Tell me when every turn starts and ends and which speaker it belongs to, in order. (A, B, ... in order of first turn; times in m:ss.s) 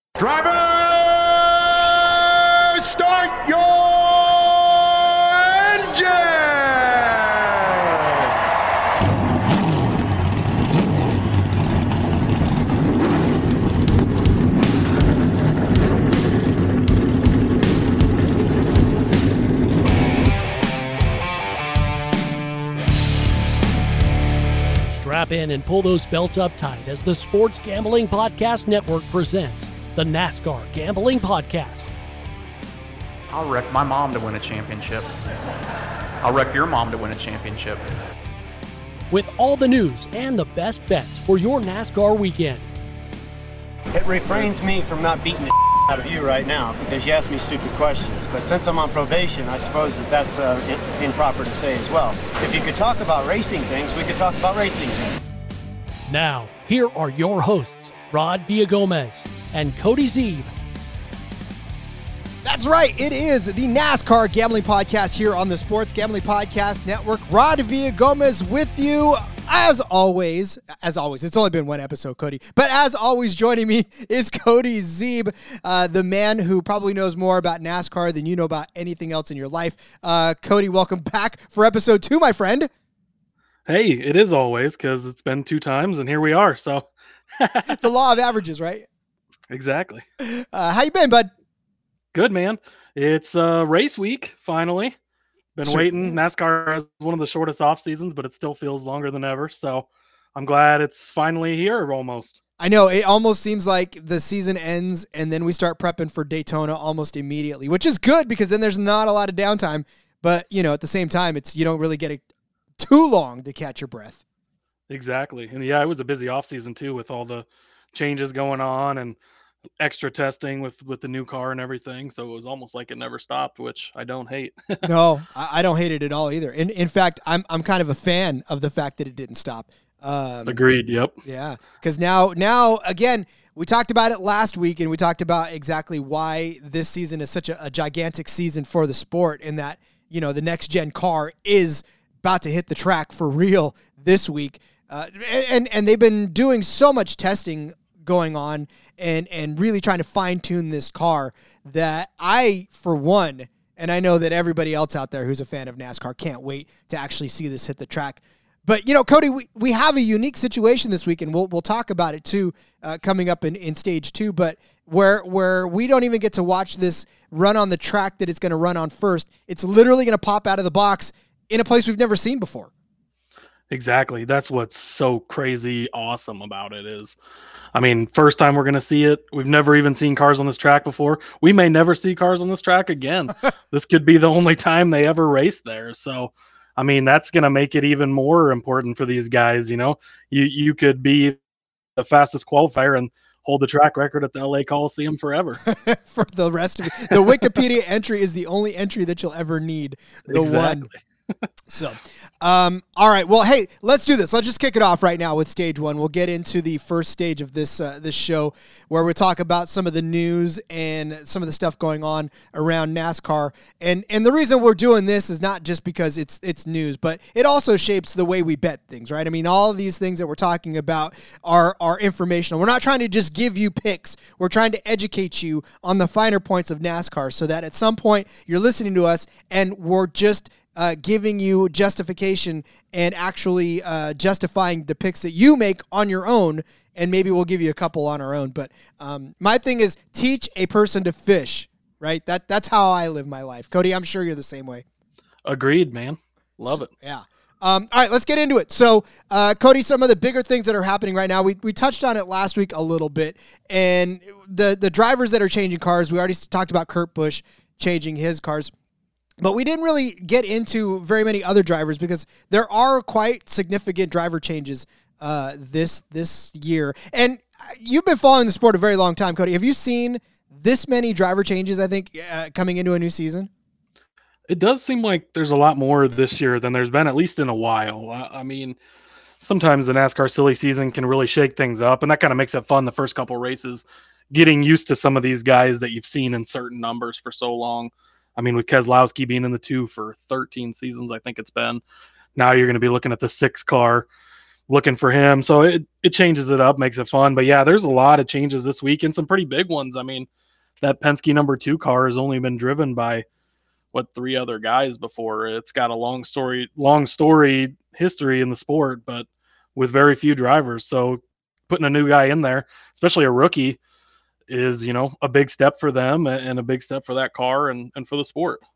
0:00.2-0:08.3 A
0:24.9-0:31.9 B
0:33.3-0:35.1 C
0:36.2-0:37.8 C
0:39.1-0:42.7 B
0:43.9-0:55.1 D
0:56.1-1:00.5 B
1:02.4-1:22.7 E
1:23.7-1:27.9 F
1:27.7-1:28.9 E
1:29.5-1:30.0 F
1:30.2-1:31.3 E
1:32.1-1:35.0 F
1:35.6-1:42.4 F
1:35.6-1:36.2 E
1:42.6-1:52.2 E
1:52.8-1:54.2 E
1:54.9-1:59.2 F
1:59.8-2:04.9 F
2:04.8-2:10.6 E
2:10.5-2:11.1 F
2:11.2-2:52.7 E
2:53.7-2:57.2 F
2:57.7-3:11.4 F
3:12.0-3:15.6 F
3:15.7-3:20.9 E
3:17.1-3:17.4 F
3:20.3-3:21.0 F
3:21.7-4:04.8 E
4:05.5-4:06.9 F
4:06.6-4:18.7 E
4:19.4-4:33.5 E
4:34.5-4:38.8 F
4:39.4-4:51.8 F
4:52.4-4:54.1 F
4:54.7-5:00.3 F
5:00.8-5:03.2 F
5:03.9-5:13.8 F
5:14.5-5:18.6 F